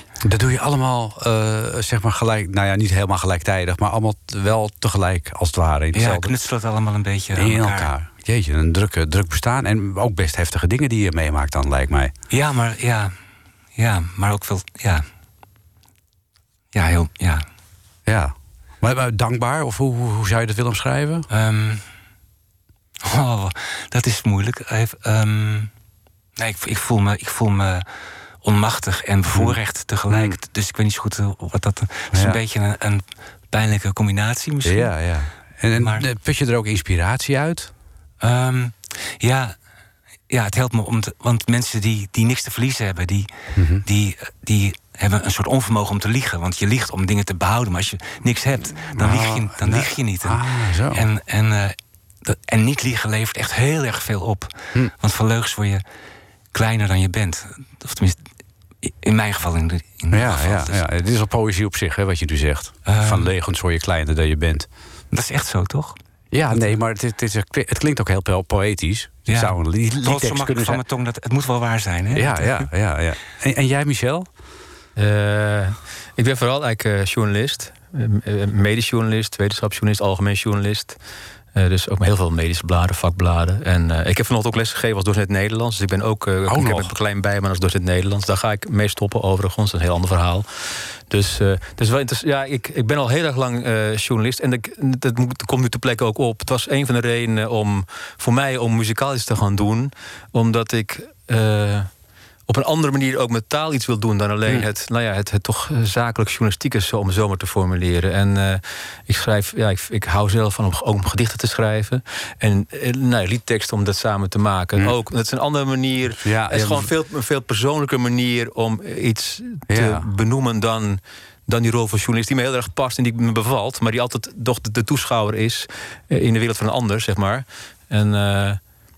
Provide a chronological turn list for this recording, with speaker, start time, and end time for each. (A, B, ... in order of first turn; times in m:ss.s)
0:00.2-0:06.4 A
0:05.9-0:07.9 B
0:07.3-0:12.1 A
0:12.3-0:13.1 B
0:13.7-0:15.0 B
0:16.7-0:17.4 B
0:18.0-0:21.3 A
0:21.3-0:21.8 B
0:23.0-0:25.7 B
0:26.4-0:27.8 B
0:28.4-0:34.9 B
0:29.3-0:29.6 A
0:30.1-0:30.4 A
0:32.1-0:32.4 A
0:34.6-0:37.7 A
0:35.8-0:36.0 B
0:38.2-0:39.6 B
0:40.3-0:43.3 B
0:43.5-0:43.8 A
0:43.8-0:55.8 B
0:48.9-0:51.0 A
0:56.5-0:58.2 B
0:58.8-1:00.8 B
1:00.1-1:04.7 A
1:02.8-1:03.3 B
1:05.1-1:06.0 B
1:06.3-1:10.8 A
1:06.5-1:06.8 B
1:09.3-1:12.7 B
1:12.1-1:14.3 A
1:15.0-1:21.0 C
1:21.5-1:41.9 C
1:26.5-1:26.9 A
1:42.5-2:08.6 C
1:56.2-1:56.9 A
1:59.7-2:00.0 A